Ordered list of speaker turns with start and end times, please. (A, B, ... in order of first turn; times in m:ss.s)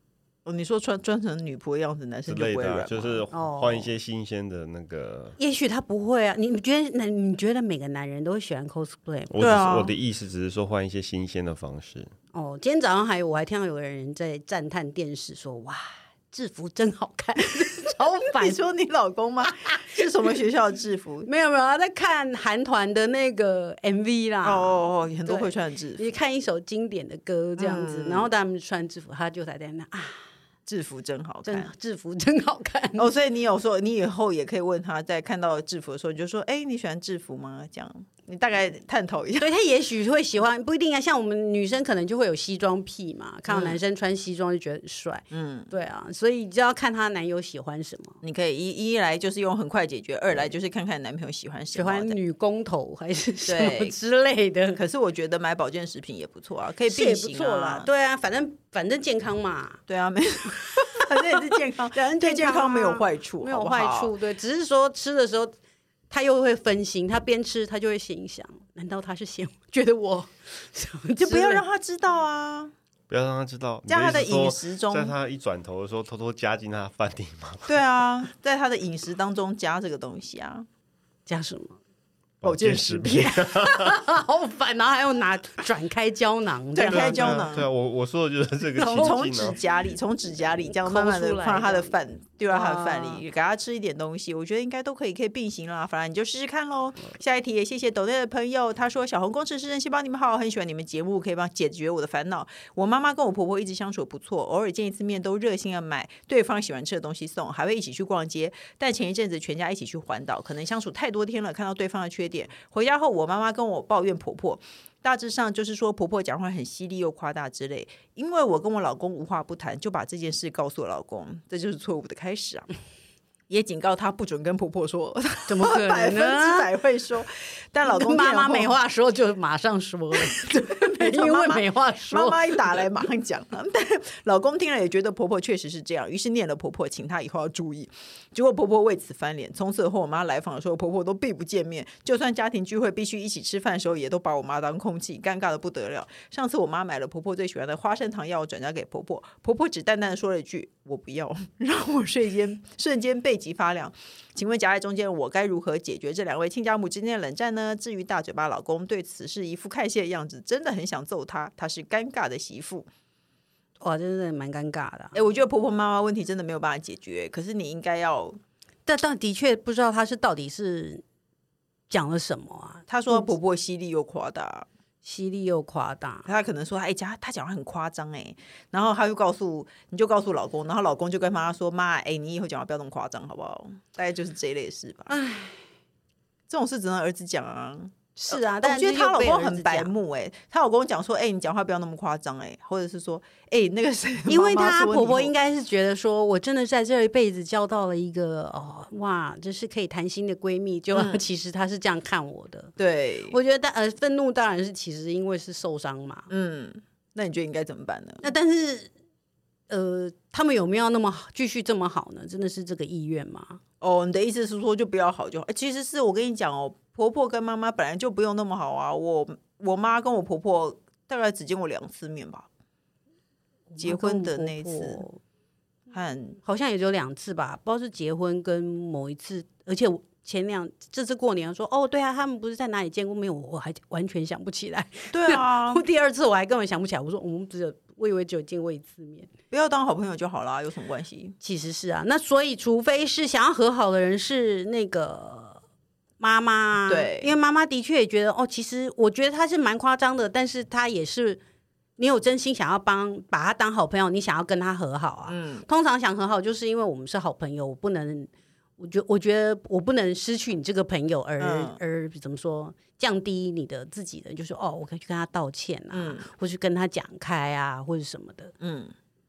0:00.4-0:03.2 A
0:02.2-0:05.4 B
0:03.3-0:03.9 C
0:05.4-0:09.5 C
0:09.3-0:12.1 B
0:09.4-0:09.9 A
0:12.3-0:18.6 C
0:18.3-0:21.3 A
0:19.4-0:20.0 C
0:21.2-0:30.2 C
0:24.4-0:26.1 A
0:27.6-0:28.3 A
0:30.7-0:31.7 A
0:31.4-0:33.1 C
0:33.0-0:39.5 A
0:39.4-0:48.2 C
0:43.5-0:43.8 A
0:45.3-0:45.7 A
0:48.2-0:52.2 A
0:51.7-0:54.8 C
0:53.4-0:54.0 A
0:54.7-0:57.9 A
0:56.9-0:59.8 C
0:59.9-1:04.1 A
1:01.4-1:05.6 C
1:06.1-1:11.6 C
1:11.2-1:12.7 A
1:13.1-1:17.8 B
1:13.9-1:15.2 A
1:17.7-1:20.7 A
1:21.3-1:21.8 C
1:22.4-1:23.9 B
1:22.4-1:23.5 A
1:23.5-1:27.5 C
1:26.7-1:27.7 A
1:26.9-1:29.6 B
1:28.8-1:29.2 C
1:28.8-2:02.7 A
1:30.7-1:31.9 C
1:32.5-1:33.2 C
2:03.5-2:08.8 A
2:05.5-2:06.7 C
2:07.8-2:12.7 C
2:10.2-2:42.9 A
2:43.8-2:45.2 C
2:45.1-2:48.4 A
2:48.8-2:51.0 C
2:51.9-2:53.3 C
2:52.9-2:54.7 A
2:55.0-2:56.3 C
2:56.3-3:05.2 A
3:05.1-3:05.6 C
3:06.5-3:15.3 A
3:08.2-3:09.9 C
3:14.3-3:22.7 C
3:20.9-3:21.2 A
3:22.8-3:23.4 A
3:23.3-3:26.3 C
3:26.3-3:28.3 A
3:28.2-3:28.9 C
3:29.7-3:33.6 C
3:33.8-3:42.5 A
3:43.7-3:45.2 C
3:43.8-3:45.0 A
3:45.9-3:46.4 A
3:46.4-3:59.3 C
3:55.1-3:55.8 A
3:59.5-4:01.4 A
4:01.4-4:05.6 C
4:06.2-4:11.4 C
4:06.8-4:07.3 A
4:12.0-4:28.5 C
4:15.3-4:15.7 A
4:21.4-4:21.8 A
4:25.9-4:26.3 A
4:28.6-4:28.9 A